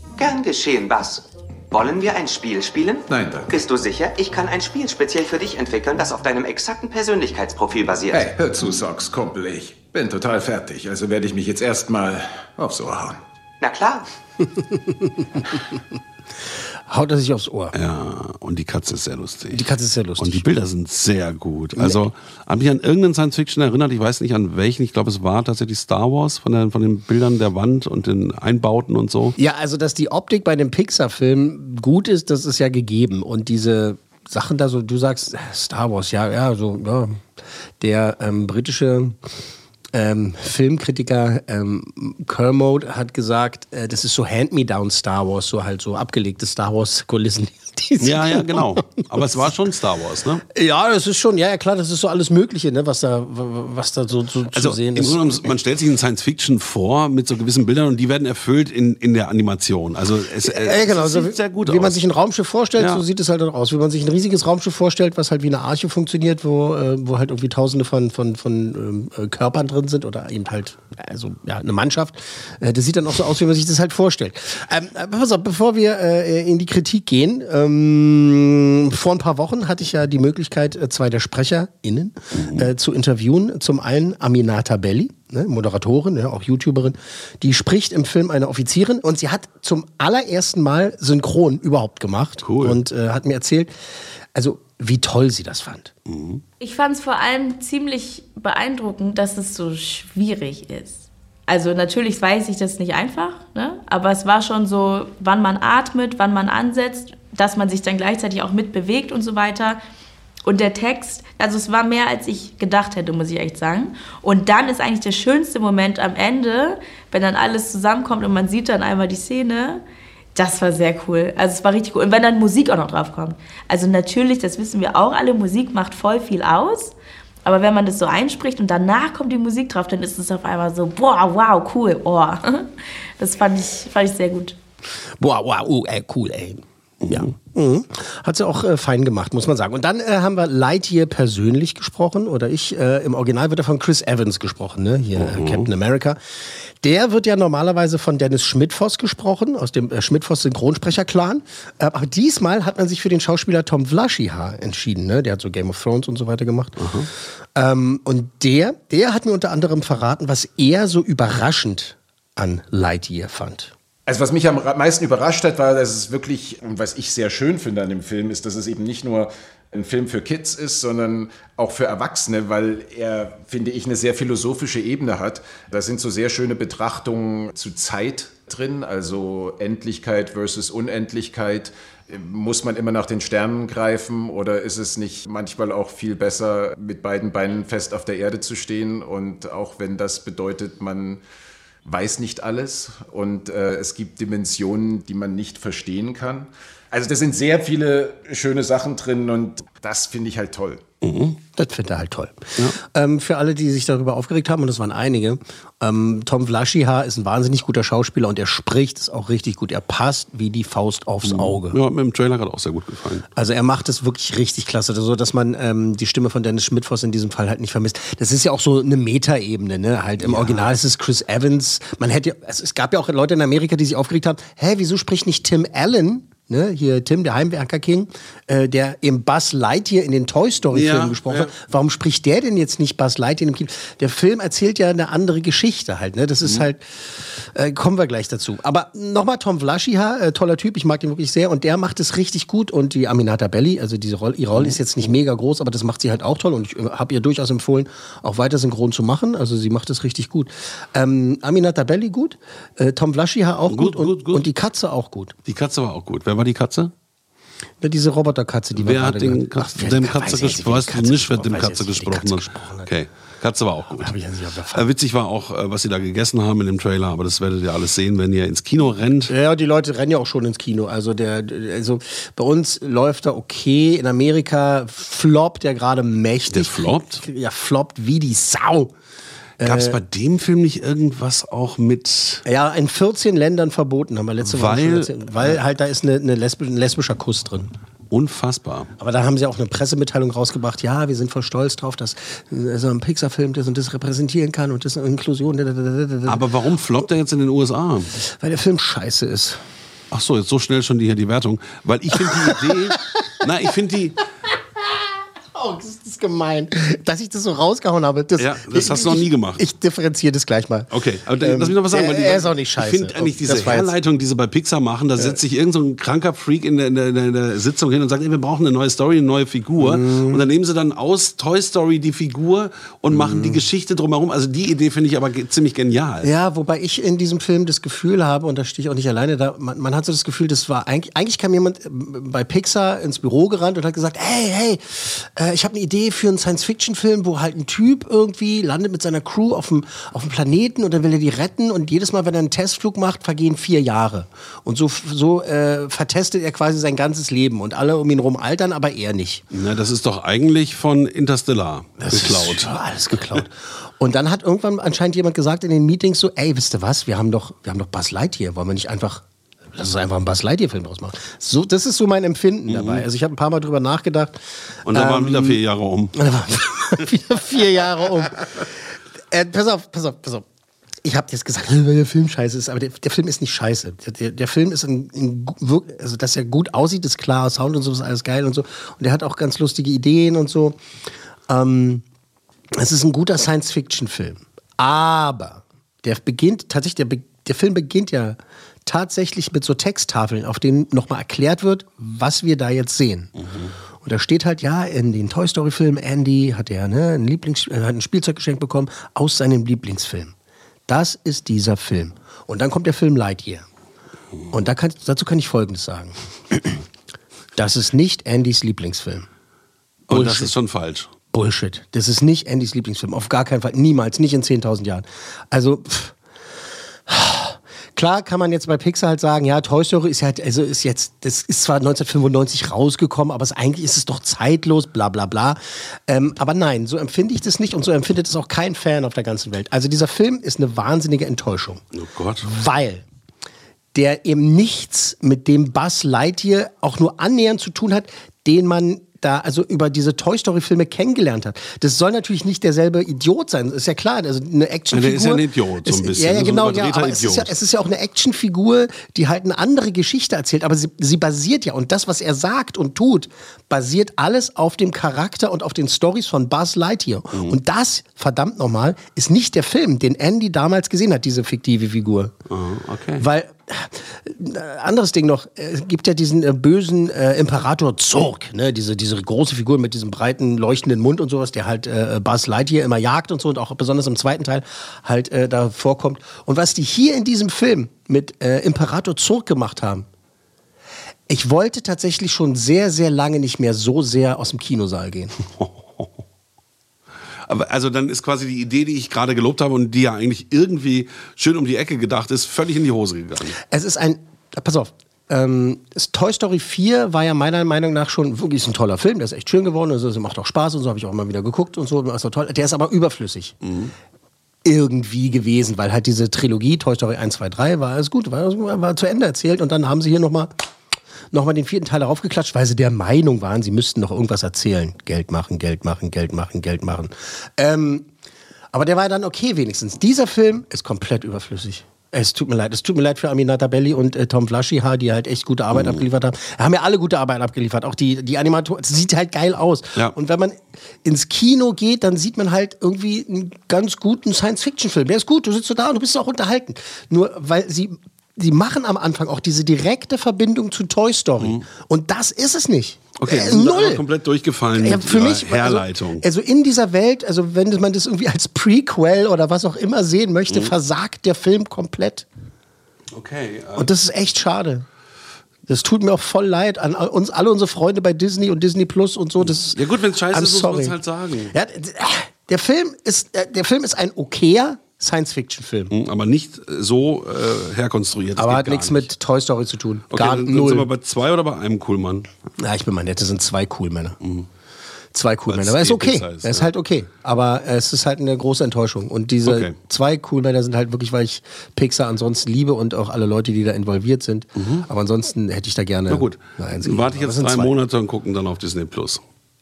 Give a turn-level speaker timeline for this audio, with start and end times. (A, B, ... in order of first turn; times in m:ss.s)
0:00.2-0:08.3 A
0:03.1-0:03.5 B
0:08.1-0:13.2 B
0:13.6-0:14.1 A
0:14.7-0:15.1 C
0:16.9-0:17.7 C
0:17.7-0:29.4 D
0:19.5-0:20.5 C
0:21.8-0:22.1 C
0:29.4-0:37.2 C
0:37.8-0:39.2 C
0:39.9-0:49.5 C
0:48.0-0:50.4 D
0:50.5-0:55.5 C
0:54.5-1:02.0 D
1:00.4-1:33.7 C
1:02.8-1:03.0 D
1:22.4-1:22.7 D
1:32.4-1:32.8 D
1:34.4-1:35.9 C
1:36.1-1:36.4 D
1:36.6-1:49.8 E
1:50.4-1:59.8 E
2:00.4-2:14.6 E
2:15.2-2:26.2 C
2:17.0-2:17.3 D
2:25.2-2:25.7 D
2:26.8-2:36.8 C
2:36.8-2:37.1 D
2:37.6-2:43.7 C
2:44.1-3:11.2 B
3:11.8-3:20.8 B
3:21.0-3:21.4 D
3:21.6-3:31.8 C
3:31.2-3:33.3 D
3:33.4-4:15.4 C
3:40.2-3:40.7 D
3:50.7-3:51.5 D
4:13.7-4:14.5 D
4:15.5-4:16.9 D
4:17.8-4:22.9 C
4:18.8-4:24.1 D
4:24.0-4:24.9 C
4:24.7-4:29.3 D
4:29.3-4:38.9 C
4:36.5-4:37.2 D
4:39.6-4:40.0 C
4:39.6-4:42.4 D
4:42.5-4:47.7 C
4:44.4-4:45.6 D
4:48.1-4:48.9 D
4:49.0-4:56.4 C
4:56.3-4:58.2 D
4:58.2-4:59.6 C
5:00.1-5:04.2 D
5:02.2-5:03.1 C
5:05.6-5:10.9 C
5:08.4-5:09.6 D
5:10.9-5:26.3 D
5:11.4-5:13.9 C
5:19.8-5:20.4 C
5:23.1-5:23.6 C
5:26.2-5:49.4 C
5:49.5-5:52.7 D
5:52.0-6:04.4 C
6:02.7-6:03.1 D
6:04.9-6:06.3 D
6:04.9-6:05.6 C
6:06.2-6:08.8 C
6:09.3-6:10.5 C
6:11.0-6:20.8 C
6:21.5-6:22.0 C
6:22.7-6:33.3 C
6:33.4-6:33.7 D
6:34.0-6:40.3 C
6:40.9-6:43.7 C
6:44.5-6:46.8 C
6:47.6-6:49.3 C
6:50.1-6:51.1 D
6:50.1-6:50.5 C
6:51.3-6:56.2 C
6:57.1-7:11.8 C
7:11.9-7:12.5 D
7:12.4-7:13.0 C
7:13.9-7:42.3 C
7:24.9-7:27.6 D
7:42.5-7:43.3 D
7:43.2-8:00.1 C
8:01.3-8:05.4 C
8:05.6-8:06.1 D
8:07.5-8:13.6 D
8:13.6-8:23.6 C
8:23.6-8:23.9 D
8:24.6-8:30.5 C
8:31.3-8:38.1 C
8:38.7-9:04.0 C
8:45.7-8:46.0 D
9:01.4-9:01.6 D
9:03.2-9:06.2 D
9:04.8-9:12.3 C
9:13.1-9:13.9 D
9:13.8-9:14.9 C
9:15.7-9:21.0 C
9:19.4-9:21.5 D
9:21.5-9:25.9 C
9:25.9-9:29.1 D
9:28.4-9:30.9 C
9:30.1-9:32.3 D
9:32.6-9:34.2 C
9:34.2-9:34.5 D
9:35.1-9:47.8 C
9:35.5-9:36.7 D
9:39.4-9:39.8 D
9:44.6-9:44.9 D
9:46.1-9:49.2 D